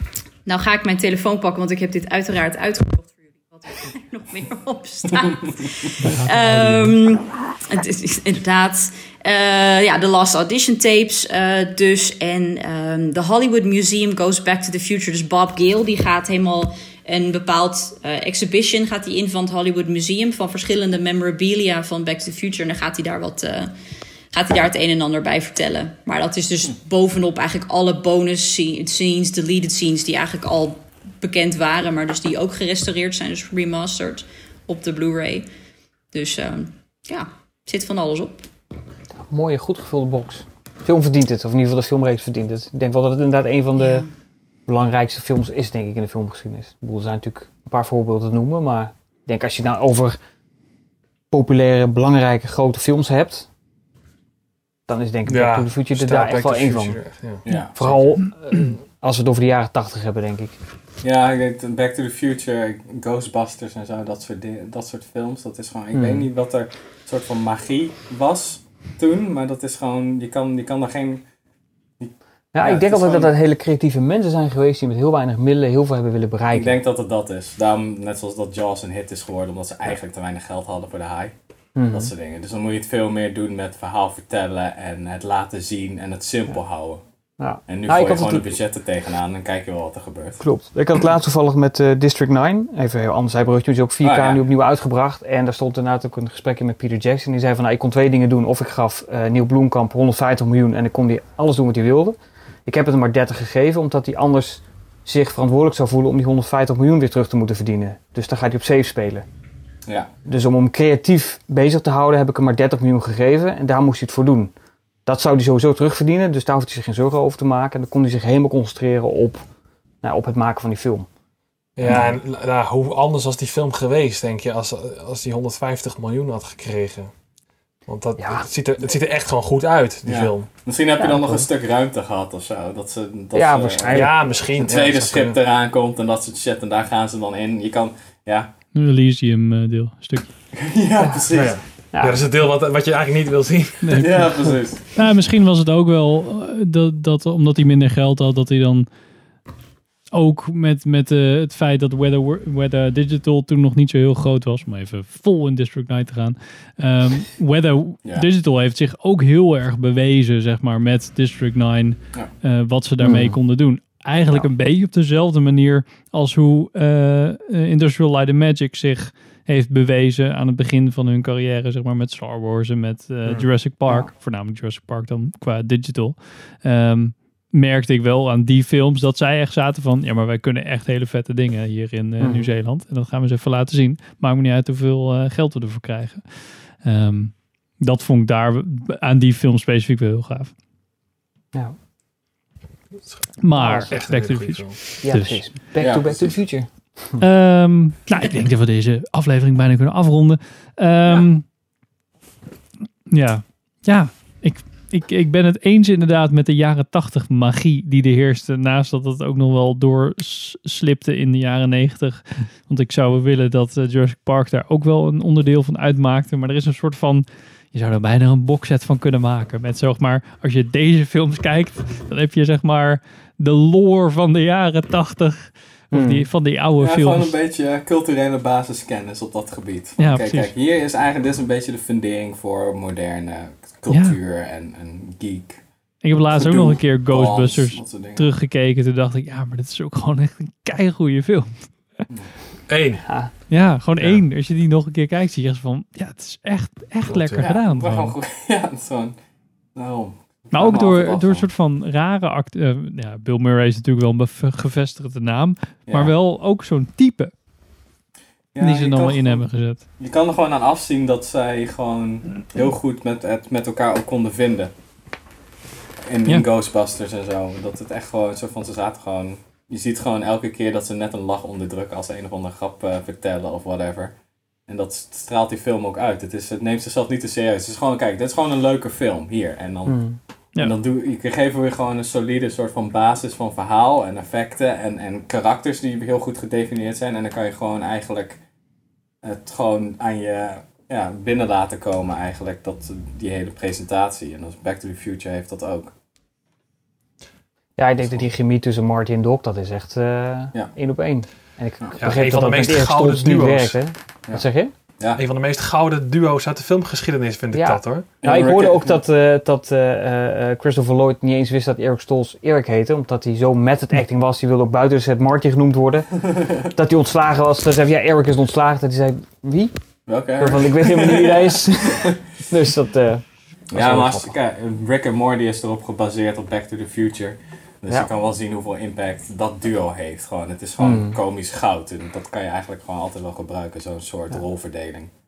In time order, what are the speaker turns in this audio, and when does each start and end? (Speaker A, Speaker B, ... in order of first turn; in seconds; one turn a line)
Speaker A: 0.5-23.7
Speaker B: 6.0-7.0
Speaker A: 24.3-35.5
Speaker A: 36.1-38.4
Speaker C: 39.1-44.0
Speaker A: 43.8-44.1
Speaker C: 44.7-50.2
Speaker C: 51.3-53.5
Speaker C: 54.9-57.0
Speaker D: 55.3-58.0
Speaker E: 57.5-57.8
Speaker C: 57.6-60.6
Speaker E: 61.0-71.2
Speaker C: 65.9-66.3
Speaker E: 72.0-73.3
Speaker C: 72.5-76.8
Speaker E: 76.5-81.3
Speaker C: 81.7-82.1
Speaker E: 81.9-87.0
Speaker C: 87.4-88.5
Speaker E: 87.7-90.4
Speaker C: 90.4-109.2
Speaker E: 94.0-94.4
Speaker C: 110.2-114.5
Speaker C: 115.0-119.4
Speaker C: 120.0-121.1
Speaker D: 121.8-127.1
Speaker D: 127.9-130.5
Speaker C: 128.2-128.5
Speaker E: 130.1-138.5
Speaker C: 131.0-131.4
Speaker C: 133.3-134.2
Speaker D: 133.9-135.4
Speaker B: 138.7-140.3
Speaker E: 140.5-141.6
Speaker C: 141.0-142.2
Speaker D: 141.3-144.2
Speaker B: 143.8-144.3
Speaker E: 143.9-144.8
Speaker B: 144.9-148.9
Speaker B: 150.1-190.5
Speaker C: 163.0-163.4
Speaker C: 182.2-182.5
Speaker D: 193.0-194.9
Speaker B: 193.4-195.4
Speaker C: 193.5-193.9
Speaker C: 195.0-197.2
Speaker E: 195.8-196.3
Speaker B: 197.2-201.4
Speaker B: 203.1-227.3
Speaker C: 225.9-226.3
Speaker E: 226.8-235.6
Speaker B: 230.0-230.5
Speaker B: 233.9-234.2
Speaker B: 236.0-241.7
Speaker E: 236.3-238.2
Speaker D: 242.7-243.0
Speaker C: 243.1-243.3
Speaker B: 243.5-248.1
Speaker D: 247.0-247.5
Speaker E: 247.4-249.2
Speaker E: 249.7-251.5
Speaker B: 250.5-257.3
Speaker E: 258.5-264.7
Speaker B: 258.6-259.8
Speaker E: 266.1-274.1
Speaker E: 274.7-288.4
Speaker C: 279.9-280.2
Speaker E: 289.2-295.9
Speaker C: 297.8-304.7
Speaker E: 301.8-302.1
Speaker D: 302.0-303.7
Speaker D: 305.1-308.2
Speaker C: 307.5-319.7
Speaker E: 308.2-308.9
Speaker E: 320.1-322.2
Speaker C: 320.2-324.3
Speaker E: 323.7-335.1
Speaker C: 330.8-331.2